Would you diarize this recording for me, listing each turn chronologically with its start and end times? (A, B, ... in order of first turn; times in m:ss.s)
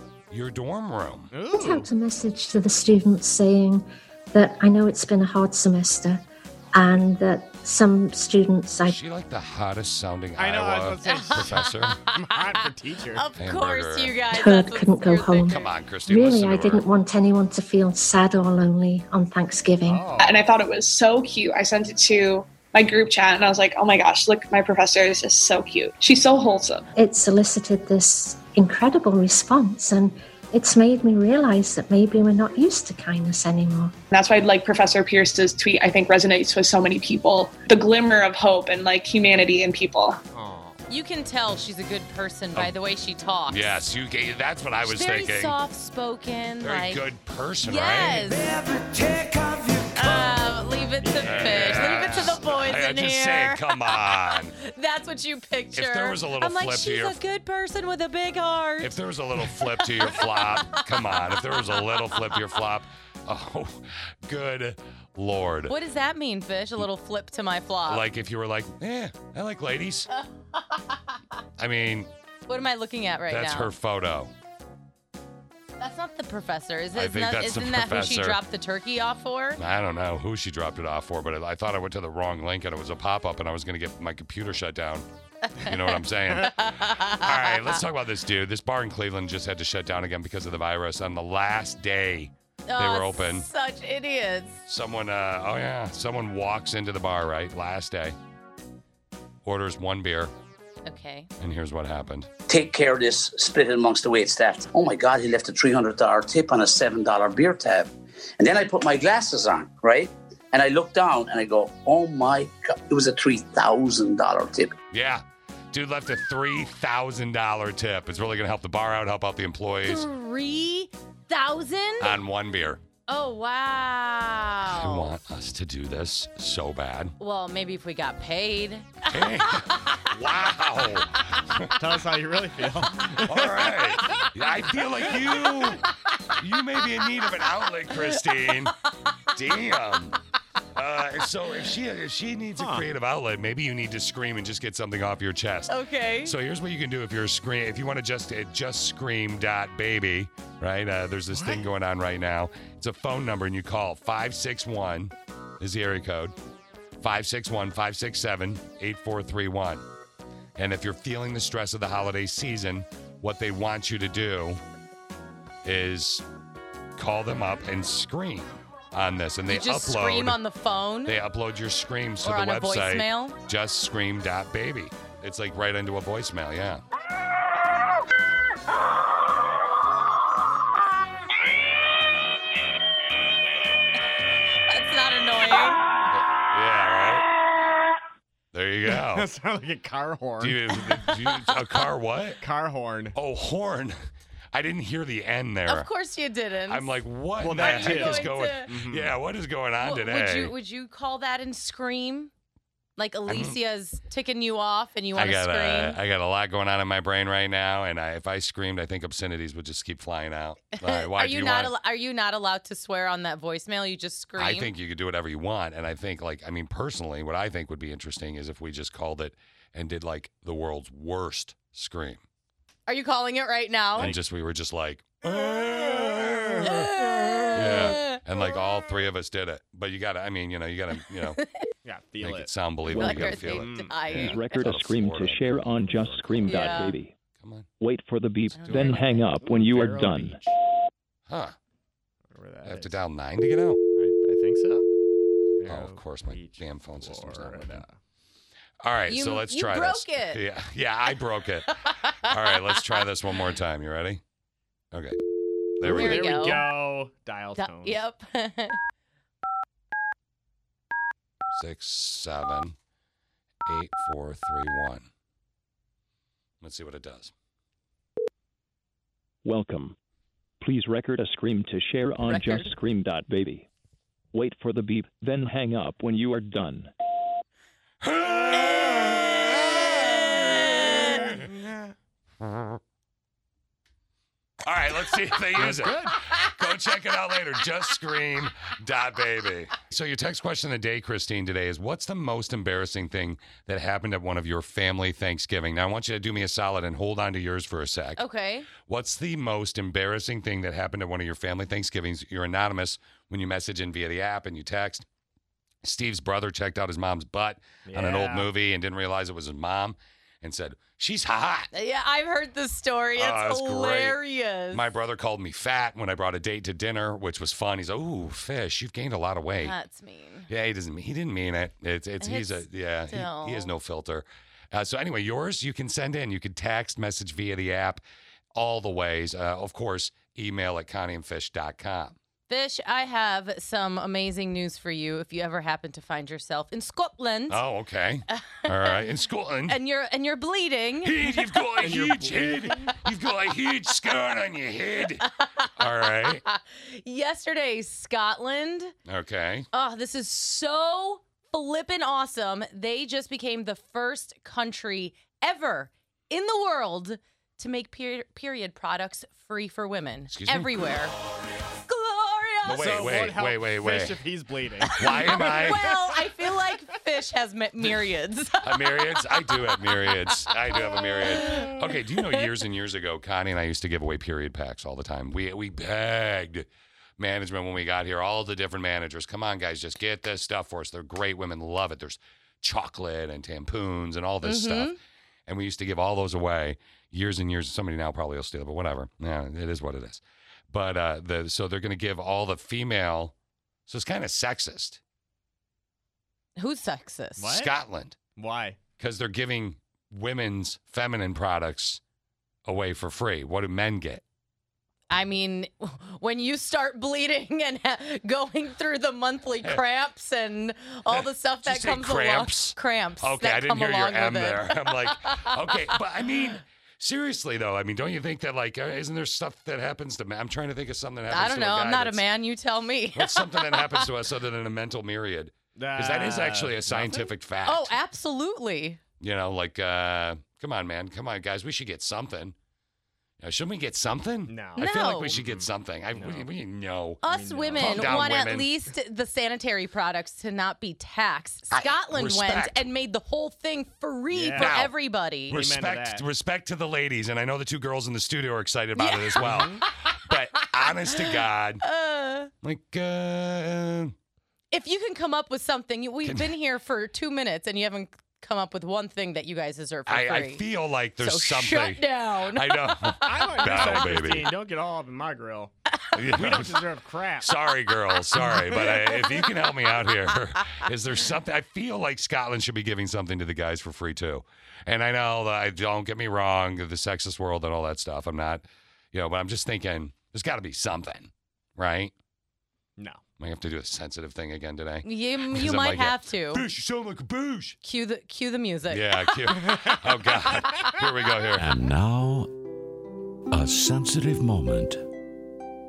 0:00.3-0:01.3 A
0:01.3-0:01.9 B
0:01.5-0:09.0 C
0:08.8-0:12.0 A
0:10.4-0:13.2 B
0:11.1-0:12.6 D
0:13.2-0:15.7 D
0:13.4-0:14.2 A
0:14.3-0:20.1 C
0:15.5-0:16.9 A
0:19.8-0:20.4 B
0:20.2-0:26.8 E
0:27.0-0:33.9 C
0:34.1-0:40.2 E
0:40.3-0:40.8 B
0:40.9-0:43.8 D
0:43.5-0:45.6 A
0:44.8-0:47.0 D
0:46.6-0:48.4 A
0:47.6-0:48.5 D
0:48.8-0:49.7 B
0:49.9-0:59.0 D
0:51.0-0:52.4 B
0:51.2-0:54.6 A
0:55.7-0:57.2 A
0:58.8-1:05.8 A
0:59.8-1:02.2 D
1:05.7-1:08.0 D
1:07.9-1:10.1 A
1:10.1-1:11.2 D
1:11.6-1:12.1 A
1:12.5-1:13.7 D
1:13.3-1:14.3 A
1:15.8-1:19.6 D
1:16.9-1:18.4 A
1:19.6-1:25.1 A
1:25.6-1:33.5 A
1:26.5-1:27.8 D
1:32.7-1:34.6 D
1:34.7-1:38.2 A
1:39.4-1:40.3 A
1:40.9-1:41.3 D
1:41.4-1:42.3 A
1:42.5-1:54.8 F
1:54.9-2:00.1 A
1:59.8-2:02.1 D
2:02.0-2:02.8 A
2:03.1-2:05.1 D
2:04.7-2:07.1 A
2:07.2-2:10.0 D
2:09.1-2:11.8 A
2:11.8-2:14.2 B
2:13.2-2:15.8 A
2:15.1-2:15.6 B
2:16.4-2:18.7 A
2:19.3-2:20.2 A
2:20.8-2:36.4 A
2:22.6-2:22.9 B
2:25.7-2:26.3 D
2:31.3-2:31.7 B
2:37.0-2:39.8 A
2:40.6-2:44.6 A
2:45.6-2:46.2 A
2:47.0-2:50.4 A
2:49.5-2:51.2 D
2:51.1-2:56.8 A
2:52.2-2:53.4 D
3:04.7-3:05.8 D
3:06.1-3:07.3 A
3:08.5-3:09.3 A
3:08.9-3:11.2 B
3:10.4-3:12.4 A
3:12.4-3:13.2 B
3:13.2-3:15.9 A
3:15.7-3:16.9 D
3:16.7-3:20.5 A
3:17.4-3:19.2 B
3:17.6-3:18.7 D
3:19.8-3:22.3 D
3:23.0-3:26.0 D
3:23.3-3:23.6 A
3:25.2-3:31.7 A
3:30.8-3:34.7 D
3:34.4-3:42.2 A
3:42.9-3:44.1 D
3:44.0-3:46.9 A
3:45.6-3:46.8 B
3:46.6-3:48.2 D
3:47.5-3:51.4 A
3:51.3-3:51.6 D
3:51.8-3:52.5 B
3:52.2-3:56.8 A
3:52.9-3:54.6 D
3:52.9-3:53.5 G
3:53.2-3:53.9 B
3:54.1-3:57.1 G
3:56.5-3:57.0 D
3:57.4-3:57.7 A
3:57.8-4:00.4 G
3:58.6-3:59.3 D
3:58.7-4:00.5 B
4:01.3-4:01.6 A
4:02.3-4:03.0 B
4:02.6-4:03.8 A
4:04.0-4:04.9 B
4:05.6-4:08.0 B
4:05.6-4:07.8 A
4:08.8-4:14.2 A
4:09.1-4:10.4 D
4:11.8-4:12.8 D
4:14.9-4:15.2 A
4:15.8-4:16.3 A
4:15.8-4:18.0 B
4:15.8-4:16.6 D
4:17.6-4:18.8 D
4:21.5-4:22.8 A
4:23.7-4:25.1 A
4:26.6-4:27.3 A
4:29.4-4:30.0 G
4:30.6-4:33.7 G
4:32.2-4:32.7 D
4:34.3-4:36.9 G
4:38.0-4:39.4 A
4:39.0-4:41.9 B
4:40.0-4:41.2 D
4:44.6-4:58.2 A
4:45.6-4:46.2 B
4:58.2-4:58.7 D
4:58.8-5:05.1 A
5:05.8-5:11.7 A
5:07.9-5:08.5 B
5:11.7-5:14.8 D
5:13.2-5:14.2 A
5:14.7-5:19.8 A
5:19.6-5:20.5 D
5:20.5-5:28.0 A
5:22.2-5:23.7 D
5:28.5-5:32.2 A
5:32.5-5:37.6 D
5:37.5-5:39.8 A
5:38.3-5:39.0 D
5:39.7-5:41.3 D
5:41.0-5:45.2 A
5:41.8-5:42.9 B
5:45.2-5:45.7 D
5:45.8-5:46.4 A
5:46.2-5:48.9 D
5:49.1-5:49.7 A
5:49.7-6:01.1 D
6:00.3-6:00.9 A
6:01.9-6:03.0 D
6:02.6-6:04.2 A
6:02.6-6:06.5 B
6:05.0-6:05.9 A
6:05.0-6:10.2 D
6:08.6-6:16.7 A
6:10.9-6:12.4 D
6:17.2-6:25.0 A
6:24.4-6:25.0 D
6:25.5-6:33.3 A
6:33.9-6:35.0 A
6:36.6-6:37.5 D
6:37.4-6:37.7 B
6:37.5-6:38.2 A
6:38.4-6:38.8 B
6:39.0-6:42.0 A
6:42.7-6:44.2 A
6:45.1-6:55.5 D
6:51.1-7:02.2 A
7:01.3-7:04.0 D
7:03.2-7:07.9 A
7:05.8-7:07.3 B
7:07.7-7:09.0 D
7:09.2-7:12.6 A
7:13.4-7:17.2 A
7:14.5-7:16.5 B
7:14.8-7:15.3 D
7:17.2-7:25.6 D
7:17.3-7:18.2 B
7:17.8-7:18.7 A
7:21.7-7:22.8 A
7:24.3-7:24.8 B
7:24.6-7:24.9 A
7:25.5-7:31.8 A
7:25.5-7:26.2 B
7:29.0-7:29.5 D
7:29.4-7:29.8 B
7:31.2-7:32.5 D
7:32.6-7:34.1 A
7:34.7-7:40.6 D
7:36.2-7:36.5 A
7:40.1-7:44.5 A
7:41.2-7:42.9 D
7:43.2-7:45.7 B
7:43.6-7:44.1 D
7:46.2-7:46.8 A
7:46.3-7:47.5 B
7:47.4-8:02.1 A
7:48.4-7:48.9 B
8:03.4-8:07.8 A
8:05.0-8:06.6 D
8:07.8-8:09.4 D
8:08.9-8:11.7 A
8:09.6-8:10.0 B
8:11.6-8:12.5 H
8:13.5-8:15.0 H